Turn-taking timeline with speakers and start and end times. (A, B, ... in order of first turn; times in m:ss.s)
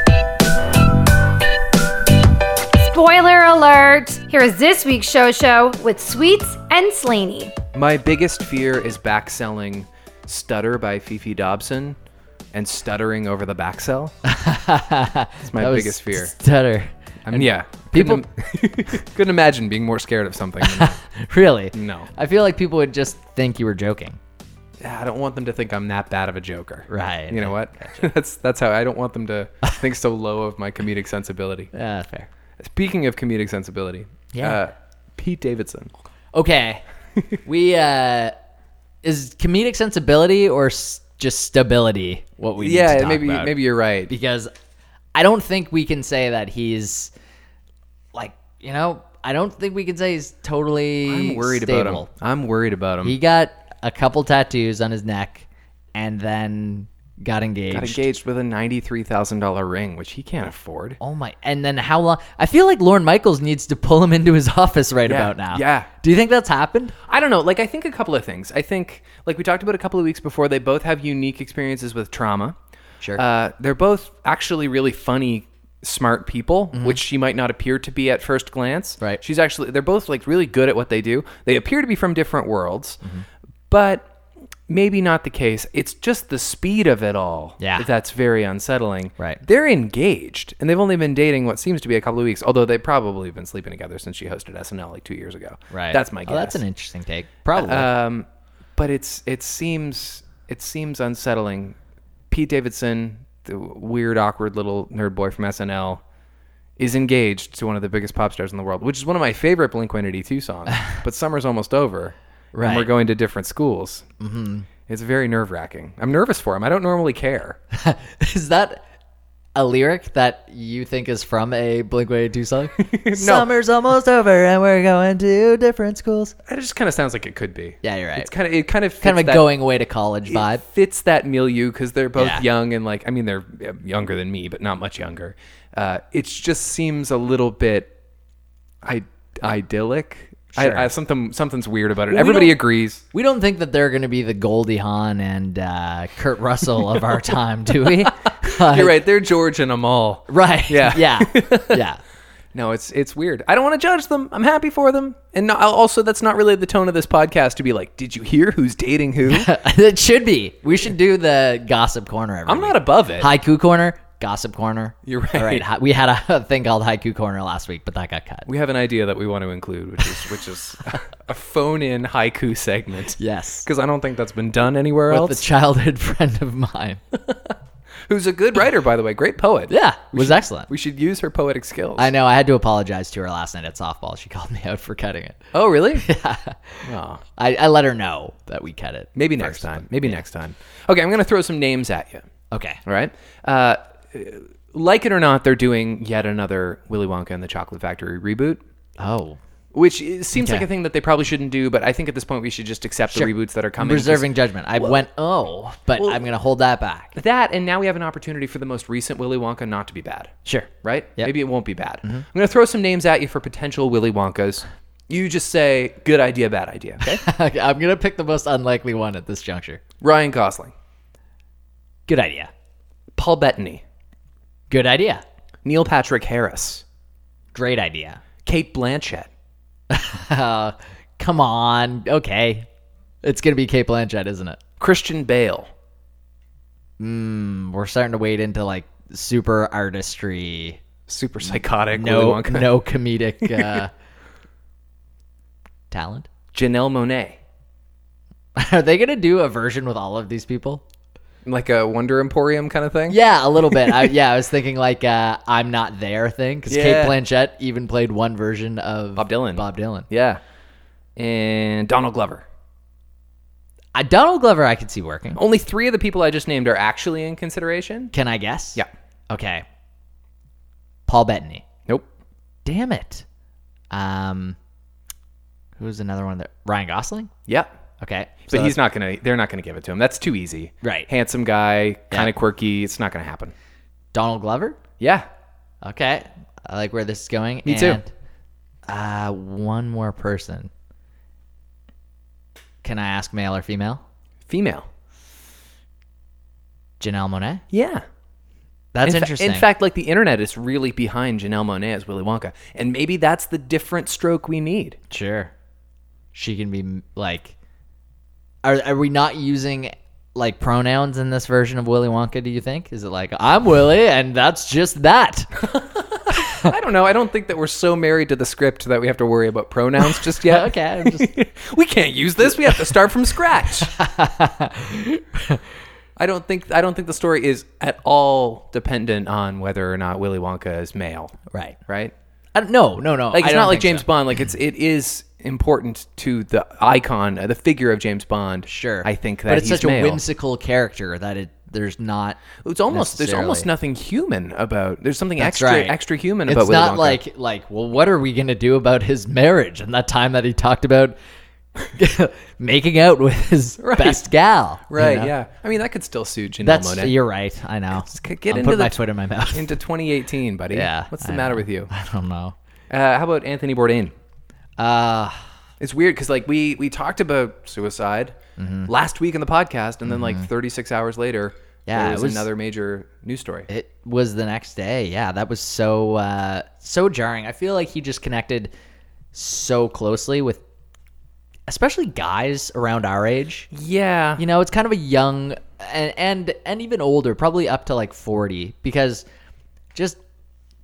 0:02.8-0:07.6 A
0:07.7-0:12.0 B
0:12.5-0:14.1 B
0:14.2-0:18.2 C
0:15.4-0:16.3 B
0:17.2-0:21.0 B
0:20.6-0:24.2 C
0:21.7-0:22.1 B
0:24.8-0:31.7 B
0:26.9-0:28.1 C
0:31.7-0:32.3 C
0:32.6-0:35.9 B
0:34.3-0:34.6 C
0:36.3-0:36.8 C
0:37.4-0:38.3 C
0:39.0-0:43.5 C
0:42.6-0:44.1 B
0:44.1-0:44.5 C
0:45.1-0:47.1 C
0:48.1-0:52.1 C
0:51.0-0:53.2 B
0:53.0-0:58.0 C
0:57.7-1:01.0 B
1:01.0-1:06.9 C
1:05.0-1:05.9 B
1:07.1-1:12.6 B
1:13.1-1:23.0 B
1:16.7-1:17.0 C
1:23.7-1:24.1 B
1:24.7-1:36.6 B
1:27.6-1:27.9 C
1:29.2-1:29.4 C
1:35.7-1:37.9 C
1:37.5-1:41.8 B
1:42.3-1:46.0 B
1:46.8-1:54.0 B
1:52.5-1:52.9 C
1:54.2-1:54.7 C
1:54.9-1:57.6 B
1:57.7-1:58.8 C
1:59.5-2:06.3 C
2:02.8-2:03.5 B
2:06.4-2:09.5 B
2:07.8-2:08.3 C
2:09.0-2:10.6 C
2:10.3-2:17.9 B
2:12.2-2:12.4 C
2:18.8-2:23.0 B
2:20.5-2:20.9 C
2:22.1-2:22.6 C
2:23.1-2:29.0 C
2:28.4-2:31.8 B
2:30.3-2:32.0 C
2:32.5-2:39.5 B
2:39.3-2:48.5 C
2:42.5-2:43.3 B
2:45.0-2:45.6 B
2:48.5-2:55.4 B
2:53.2-2:53.6 C
2:55.1-2:57.0 C
2:57.1-2:57.5 B
2:58.1-3:02.1 B
2:59.7-3:00.7 C
3:02.0-3:05.5 C
3:05.5-3:06.0 B
3:06.0-3:06.8 C
3:06.8-3:07.2 B
3:07.4-3:10.2 C
3:09.2-3:12.2 B
3:12.5-3:12.8 C
3:12.8-3:18.6 B
3:19.0-3:19.4 C
3:19.7-3:24.3 B
3:20.3-3:20.6 C
3:23.1-3:27.2 C
3:26.0-3:26.2 B
3:27.1-3:37.2 B
3:30.4-3:31.3 C
3:37.0-3:39.8 C
3:40.0-3:40.7 B
3:42.1-3:42.5 C
3:43.1-3:43.8 B
3:44.7-3:45.2 C
3:45.6-3:46.8 B
3:47.5-3:48.2 C
3:48.4-3:49.3 B
3:49.9-3:52.7 C
3:53.2-3:54.6 C
3:54.8-3:55.7 B
3:57.0-4:00.8 C
4:01.1-4:02.7 B
4:01.9-4:03.9 C
4:03.4-4:03.8 B
4:05.9-4:06.3 C
4:06.5-4:07.4 B
4:08.6-4:10.8 C
4:11.4-4:13.2 B
4:13.1-4:20.1 C
4:13.7-4:14.1 B
4:16.7-4:17.2 B
4:19.2-4:20.4 B
4:21.2-4:22.4 B
4:23.9-4:25.4 C
4:25.4-4:28.1 B
4:28.1-4:29.6 C
4:31.1-4:31.6 C
4:32.6-4:33.2 C
4:33.9-4:34.6 C
4:35.8-4:37.3 C
4:37.5-4:37.7 B
4:38.0-4:38.8 C
4:38.5-4:43.5 B
4:40.8-4:41.1 C
4:44.1-4:44.8 C
4:45.0-4:45.2 B
4:45.8-4:48.1 C
4:47.6-4:48.0 B
4:48.8-4:50.7 C
4:52.8-4:54.0 C
4:54.5-4:54.9 B
4:57.0-4:57.6 C
4:57.7-4:58.0 B
4:58.9-4:59.7 C
4:59.0-5:05.0 B
5:05.1-5:05.5 C
5:06.3-5:07.5 C
5:08.6-5:15.6 C
5:15.7-5:23.9 B
5:16.3-5:16.7 C
5:20.0-5:21.3 C
5:23.8-5:25.6 C
5:26.2-5:32.1 B
5:31.5-5:31.8 C
5:32.5-5:34.0 C
5:33.3-5:40.2 B
5:38.7-5:43.7 C
5:42.6-5:47.2 B
5:45.4-5:51.2 C
5:51.9-5:55.3 C
5:53.8-5:54.3 B
5:54.9-5:57.1 B
5:56.6-5:59.7 C
5:57.9-5:59.0 B
5:59.5-6:01.9 B
6:00.7-6:02.5 C
6:02.9-6:04.1 B
6:04.8-6:05.4 C
6:05.8-6:08.4 B
6:08.6-6:08.9 C
6:08.9-6:13.7 B
6:10.1-6:10.5 C
6:11.9-6:12.5 C
6:13.7-6:18.7 C
6:19.3-6:20.6 C
6:21.7-6:23.7 C
6:23.7-6:24.4 B
6:24.4-6:29.2 C